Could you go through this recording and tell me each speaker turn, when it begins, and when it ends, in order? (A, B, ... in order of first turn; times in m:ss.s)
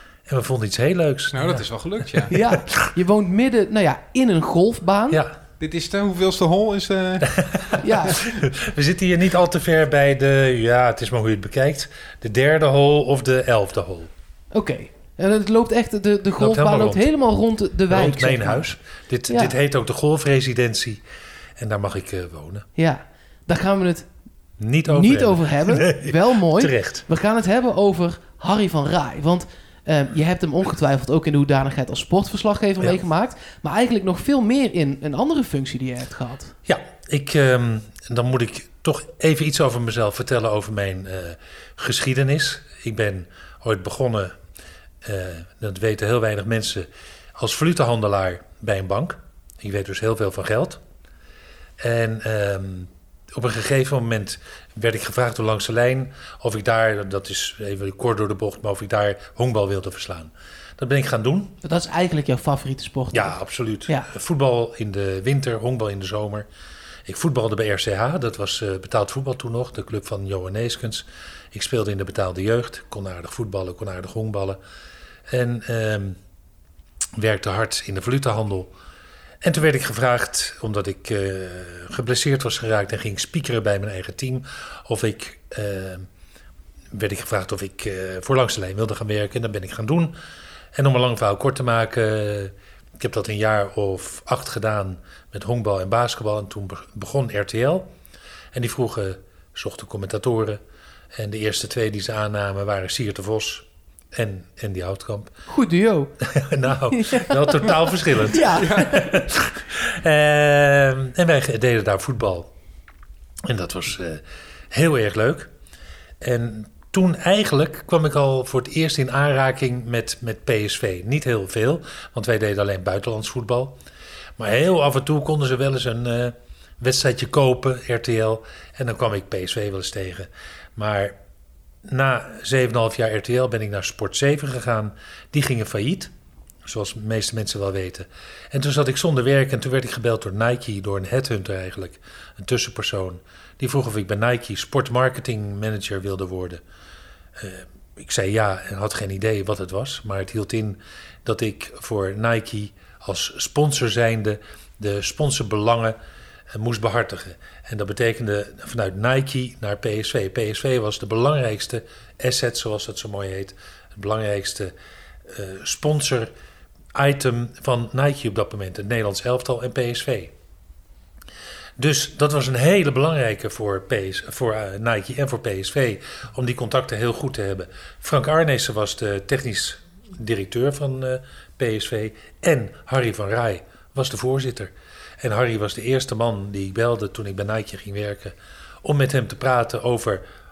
0:00.3-0:02.8 A
0:01.3-0:02.3 B
0:02.3-0:05.2 C
0:05.1-0:05.4 A
0:05.6-0:07.3 B
0:07.3-0:14.1 A
0:07.8-0:08.3 C
0:14.5-0:18.7 C
0:16.4-0:17.1 A
0:17.9-0:21.0 A
0:19.3-0:19.5 C
0:21.6-0:22.7 A
0:22.8-0:24.1 C
0:24.6-0:27.0 A
0:24.9-0:36.5 C
0:36.7-0:44.3 A
0:45.0-0:50.8 A
0:51.8-1:01.6 A
1:01.6-1:03.4 C
1:03.1-1:06.5 A
1:07.1-1:14.6 A
1:15.3-1:16.2 A
1:17.2-1:18.7 A
1:19.4-1:26.1 A
1:26.9-1:30.1 A
1:30.8-1:37.9 A
1:38.5-1:40.6 A
1:41.2-1:45.3 A
1:45.5-1:46.1 C
1:46.2-1:52.5 A
1:46.9-1:49.2 C
1:48.6-1:48.9 B
1:53.4-1:55.5 A
1:56.2-2:03.8 A
2:04.4-2:11.2 A
2:11.9-2:16.1 A
2:16.7-2:26.6 A
2:27.4-2:36.0 A
2:36.5-2:44.7 A
2:45.3-2:46.3 A
2:47.0-2:50.3 A
2:51.8-3:10.2 A